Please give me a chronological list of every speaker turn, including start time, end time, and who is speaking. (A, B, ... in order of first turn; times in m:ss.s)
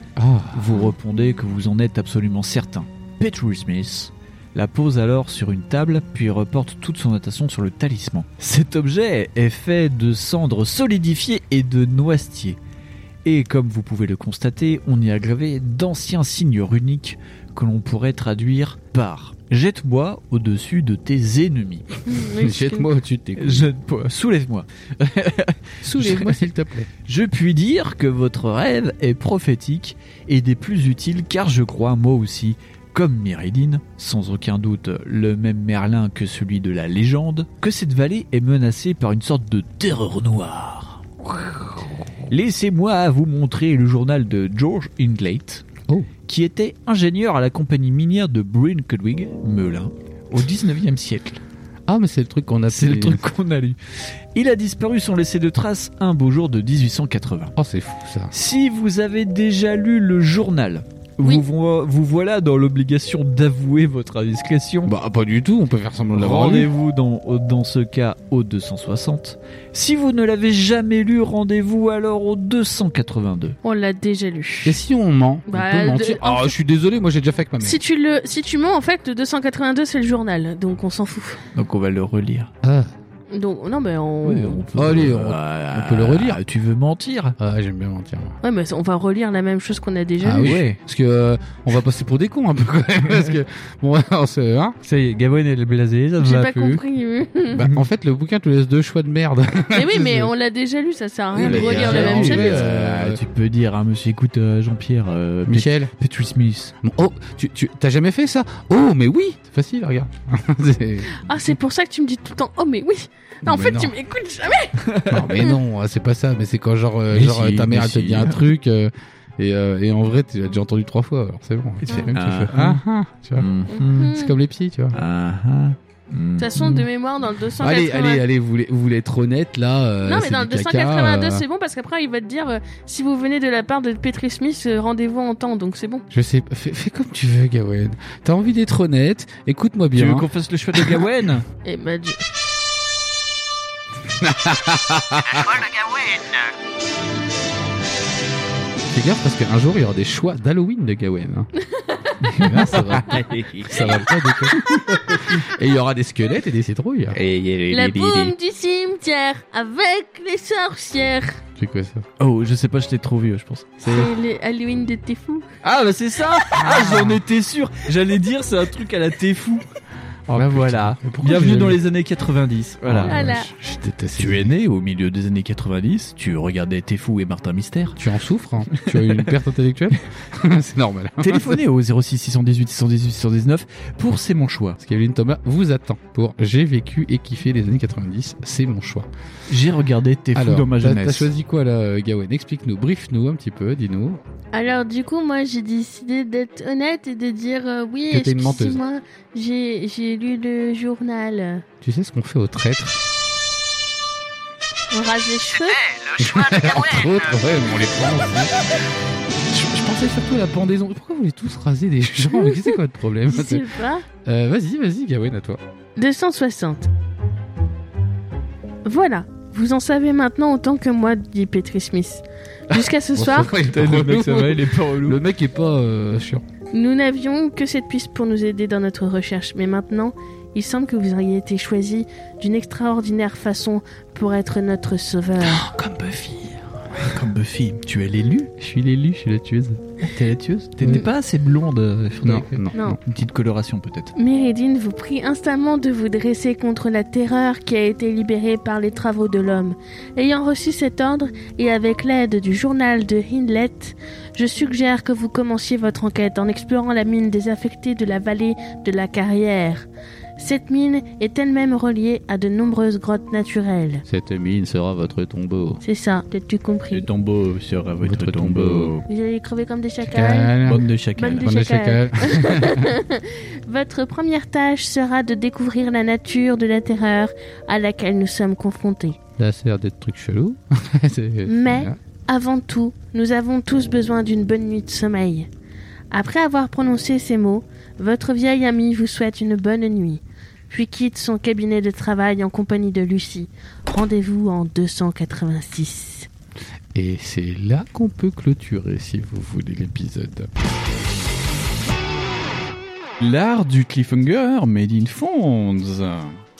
0:00.2-0:00.9 A
0:00.5-0:12.6 B
0:13.2-0:21.9 B
0:22.0-0:22.9 C
0:22.4-0:23.7 A
0:23.4-0:26.5 B
0:25.8-0:26.9 A
0:27.0-0:41.0 B
0:42.3-0:45.7 B
0:46.2-0:51.4 B
0:51.9-0:53.2 A
0:52.7-0:53.8 B
0:54.3-0:57.5 B
0:57.6-0:58.3 A
0:58.3-1:04.9 B
1:04.8-1:06.7 A
1:06.1-1:13.6 B
1:13.6-1:14.8 C
1:14.6-1:17.8 A
1:15.5-1:16.5 C
1:17.6-1:21.4 C
1:21.5-1:22.5 B
1:22.6-1:22.9 A
1:23.3-1:24.6 C
1:24.2-1:27.4 B
1:24.7-1:26.4 A
1:27.4-1:28.4 A
1:28.4-1:30.6 C
1:30.2-1:34.8 A
1:30.4-1:30.8 B
1:34.8-1:36.8 B
1:36.2-1:37.7 C
1:37.5-1:40.3 A
1:39.7-1:42.6 C
1:41.3-1:43.2 A
1:41.4-1:46.7 B
1:45.5-1:45.9 A
1:46.8-1:51.5 A
1:51.2-1:54.8 C
1:53.4-1:53.9 A
1:54.8-1:55.2 B
1:55.1-2:03.5 A
1:57.1-1:58.4 B
2:01.8-2:02.8 B
2:01.9-2:02.1 C
2:03.4-2:04.2 B
2:03.7-2:04.4 C
2:04.0-2:05.0 A
2:04.9-2:06.9 B
2:06.4-2:08.2 C
2:07.6-2:11.4 A
2:10.0-2:16.0 C
2:16.1-2:21.0 A
2:19.9-2:21.4 B
2:21.6-2:22.2 C
2:24.2-2:25.6 A
2:25.8-2:26.2 B
2:28.9-2:31.5 A
2:31.7-2:32.5 C
2:32.2-2:35.4 B
2:32.4-2:34.6 A
2:35.3-2:37.2 A
2:37.1-2:38.3 B
2:37.7-2:41.4 C
2:41.6-2:42.0 A
2:42.2-2:44.1 B
2:43.8-2:45.5 C
2:45.6-2:49.6 B
2:46.6-2:47.2 A
2:50.3-2:53.3 B
2:50.3-2:51.8 A
2:52.8-2:54.5 A
2:53.1-2:53.5 C
2:54.2-2:58.0 B
2:58.0-3:01.6 A
2:58.7-2:59.3 B
3:01.2-3:04.8 B
3:04.8-3:09.1 A
3:09.5-3:11.3 B
3:10.3-3:14.2 A
3:14.5-3:21.6 C
3:18.1-3:18.8 A
3:21.8-3:23.0 A
3:24.9-3:26.0 C
3:26.1-3:28.6 A
3:29.5-3:33.6 A
3:33.3-3:34.0 C
3:34.2-3:35.6 A
3:36.0-3:36.9 C
3:38.8-3:43.5 C
3:42.7-3:46.4 A
3:43.7-3:45.2 B
3:46.7-3:55.6 C
3:55.4-3:57.0 A
3:57.0-3:58.5 B
3:58.6-3:59.8 A
4:00.0-4:04.1 B
4:02.2-4:03.0 A
4:04.2-4:19.8 C
4:20.4-4:24.0 C
4:24.1-4:25.8 A
4:25.8-4:27.1 C
4:26.9-4:29.1 B
4:28.0-4:28.9 A
4:29.1-4:30.6 C
4:30.0-4:32.9 A
4:30.6-4:31.5 B
4:31.2-4:39.2 C
4:39.4-4:42.0 A
4:41.5-4:45.5 C
4:46.1-4:56.3 C
4:56.9-5:00.5 A
5:03.2-5:06.4 B